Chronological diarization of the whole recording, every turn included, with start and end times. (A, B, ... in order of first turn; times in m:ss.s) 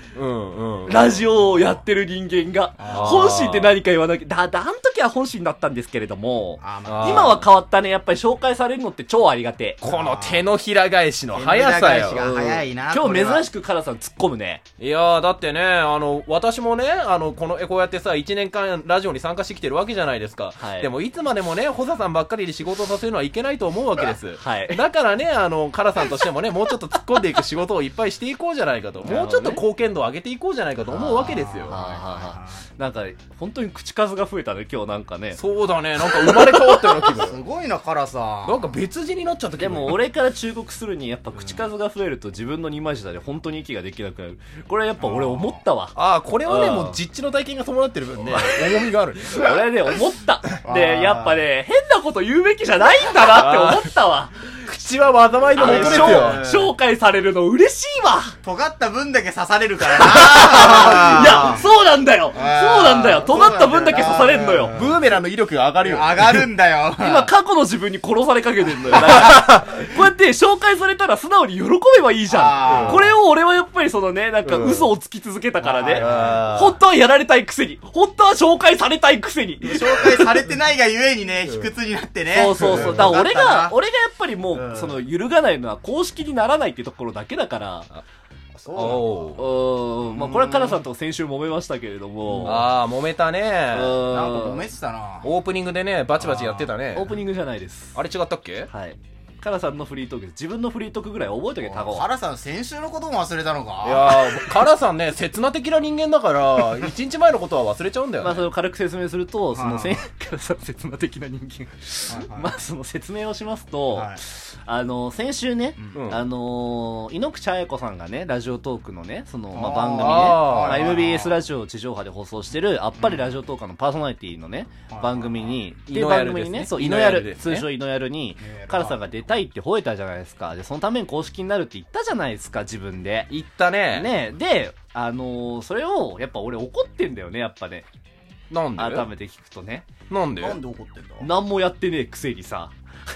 0:00.1-0:01.2 A
0:00.8-0:09.8 B
0:02.8-0:03.2 C
0:02.9-0:03.7 A
0:06.6-0:07.4 C
0:06.8-0:07.4 A
0:09.8-0:12.2 A
0:09.8-0:10.5 C
0:11.3-0:13.4 C
0:12.1-0:14.6 B
0:14.8-0:31.8 A
0:20.6-0:20.9 B
0:24.4-0:24.8 B
0:29.0-0:29.6 B
0:30.9-0:35.4 B
0:31.1-0:32.6 C
0:35.3-0:37.4 A
0:37.1-0:38.6 C
0:38.4-0:40.0 A
0:39.5-0:45.9 B
0:45.0-0:45.6 C
0:45.9-0:49.6 A
0:46.4-0:47.0 B
0:49.3-0:54.3 B
0:50.6-0:51.4 C
0:53.2-0:53.9 A
0:54.6-0:56.4 A
0:55.5-0:58.4 B
0:55.6-0:56.7 C
0:58.4-1:01.6 C
0:59.9-1:04.8 B
1:02.3-1:05.0 C
1:04.7-1:06.5 A
1:05.8-1:07.3 C
1:07.0-1:20.4 B
1:12.3-1:13.1 C
1:12.6-1:13.0 A
1:14.4-1:14.9 A
1:15.6-1:16.4 C
1:16.0-1:16.8 A
1:19.6-1:23.8 C
1:22.3-1:27.9 B
1:22.5-1:23.1 A
1:24.5-1:25.0 C
1:28.6-1:29.4 C
1:28.7-1:29.4 A
1:29.4-1:32.7 B
1:30.0-1:30.8 C
1:32.2-1:32.7 C
1:32.4-1:34.0 A
1:33.7-1:34.7 B
1:34.0-1:35.3 C
1:35.2-1:37.2 A
1:36.2-1:36.7 C
1:36.9-1:38.0 B
1:37.9-1:38.7 A
1:38.7-1:42.1 B
1:41.6-1:44.2 C
1:43.8-1:48.5 A
1:48.2-2:13.3 B
1:49.5-1:50.1 C
1:52.1-1:52.6 C
1:53.9-1:54.2 C
1:55.9-1:56.2 A
1:59.5-2:01.4 C
2:00.0-2:00.9 A
2:03.0-2:03.3 C
2:04.9-2:05.6 C
2:05.8-2:07.6 A
2:08.4-2:09.0 C
2:13.3-2:14.1 A
2:13.9-2:17.8 B
2:18.5-2:19.1 A
2:18.8-2:19.9 B
2:20.1-2:20.6 A
2:20.4-2:21.3 C
2:21.2-2:22.7 B